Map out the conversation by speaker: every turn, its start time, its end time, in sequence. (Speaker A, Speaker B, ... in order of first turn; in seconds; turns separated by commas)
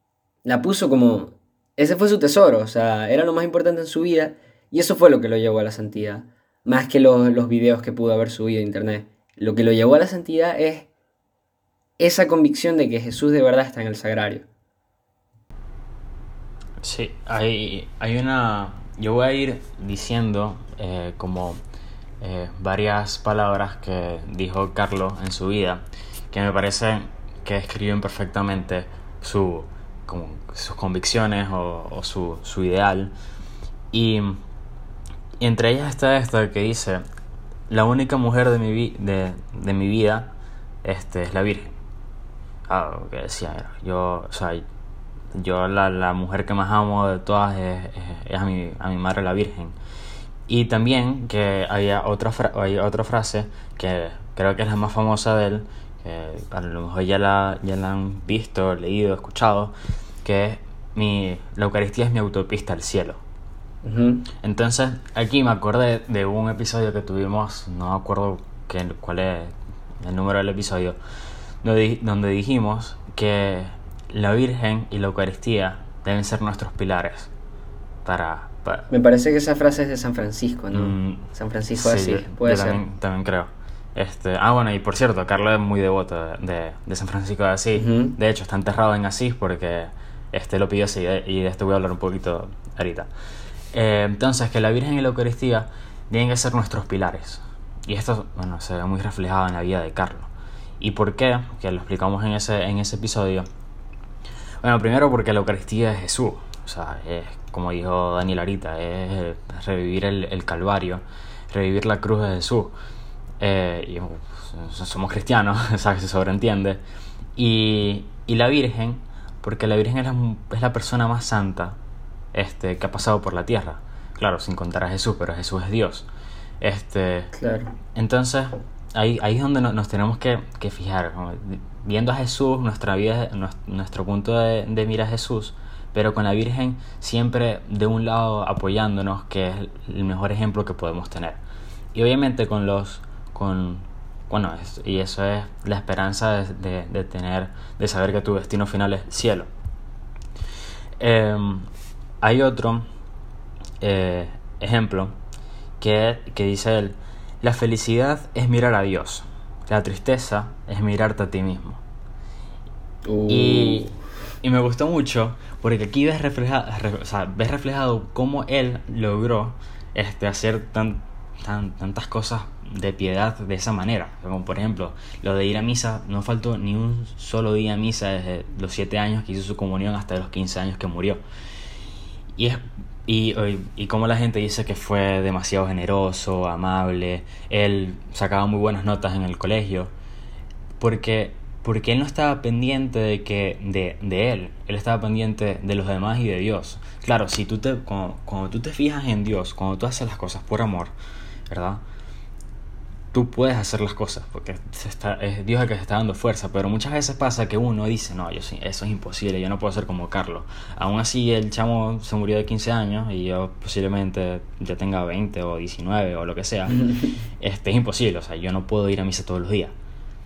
Speaker A: 0.5-10.9, Speaker A: 12.0-14.4, Speaker B: 16.8-21.6, Speaker B: 22.2-33.1, Speaker B: 33.9-34.4, Speaker B: 35.4-37.0, Speaker B: 37.7-40.3, Speaker B: 40.8-41.8, Speaker B: 42.7-44.6, Speaker B: 45.4-49.8, Speaker B: 50.5-59.7, Speaker B: 60.2-63.2, Speaker A: 63.8-64.3, Speaker B: 64.4-71.0, Speaker B: 71.6-77.3, Speaker B: 78.0-78.9, Speaker A: 78.9-82.8, Speaker B: 80.7-93.1, Speaker A: 87.8-88.2, Speaker B: 93.7-103.5, Speaker B: 104.6-112.8, Speaker B: 113.4-116.8, Speaker B: 117.4-121.8, Speaker B: 122.3-126.1, Speaker B: 126.6-127.3, Speaker A: 127.3-127.7, Speaker B: 128.0-141.4, Speaker B: 141.9-149.5, Speaker B: 151.0-151.7, Speaker B: 152.2-152.8, Speaker B: 153.8-155.2, Speaker B: 155.8-161.8, Speaker A: 163.1-163.9, Speaker B: 163.3-181.2, Speaker B: 182.4-189.9, Speaker B: 190.8-200.9, Speaker B: 201.5-201.8, Speaker B: 203.1-219.7